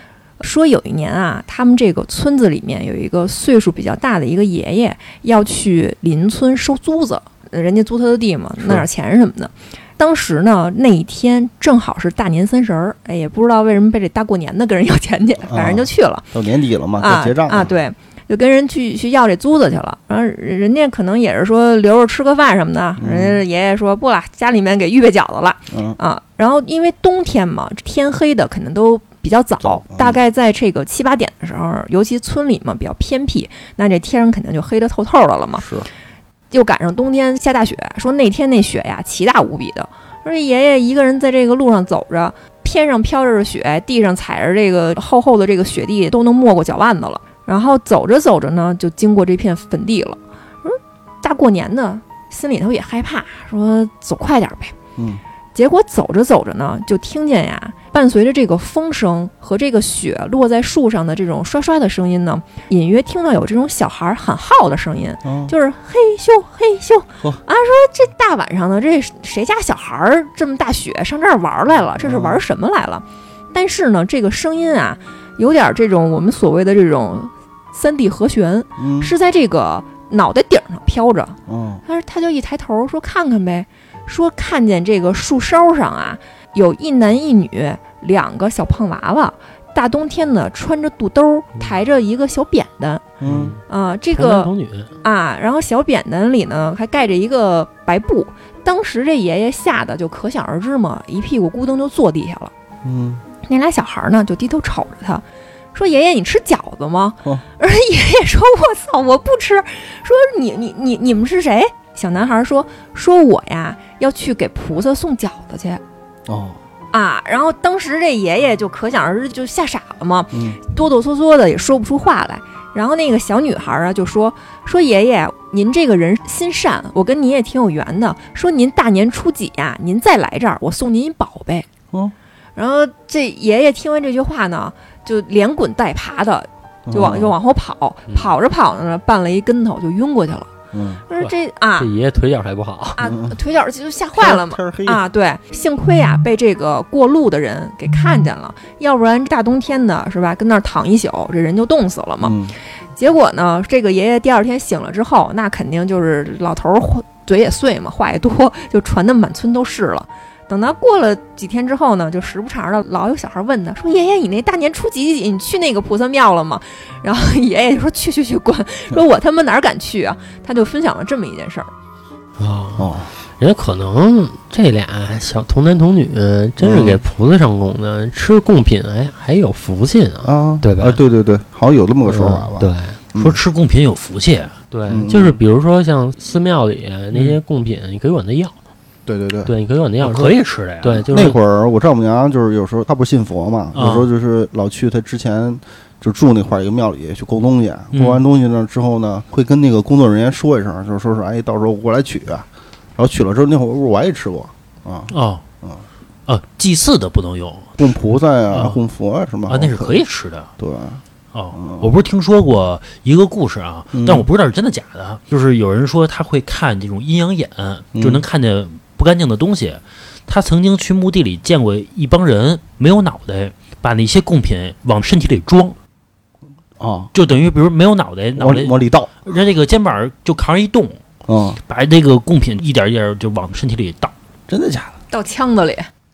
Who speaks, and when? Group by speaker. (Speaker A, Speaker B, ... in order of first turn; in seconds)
Speaker A: 0.4-16.4, 17.0-35.7, 36.5-54.8, 55.5-93.1, 93.7-94.5, 95.0-102.5, 103.4-115.8, 116.9-131.7, 132.6-140.5, 141.1-141.9, 143.0-152.3, 153.0-171.7, 235.1-235.9
Speaker B: 15.5-17.7, 23.0-23.4, 25.7-26.0, 29.8-30.2, 35.6-35.9, 65.2-65.5, 72.0-72.4, 78.8-79.1, 81.5-81.8, 93.2-93.5, 102.8-103.2, 116.3-116.6, 120.3-120.6, 136.9-137.3, 140.7-141.0, 143.0-143.4, 144.2-145.0, 152.2-152.6, 172.8-173.1, 176.6-177.0, 180.2-183.4, 184.9-185.4, 189.1-189.5, 191.1-205.8, 207.8-210.0, 210.6-211.0, 211.6-211.9, 213.9-214.3, 218.0-218.2, 226.8-227.1, 228.4-229.1, 231.3-231.6, 234.5-235.0
Speaker C: 93.2-93.6, 94.1-94.9, 141.8-143.1, 172.4-181.0, 182.1-183.0, 184.7-188.6, 189.4-191.4
Speaker D: 183.2-184.6, 187.1-187.4, 190.0-191.1, 193.7-194.1, 197.9-198.2, 205.1-205.4, 206.3-207.9, 208.5-208.8, 209.5-210.5, 211.3-225.8, 227.1-231.0, 231.7-234.1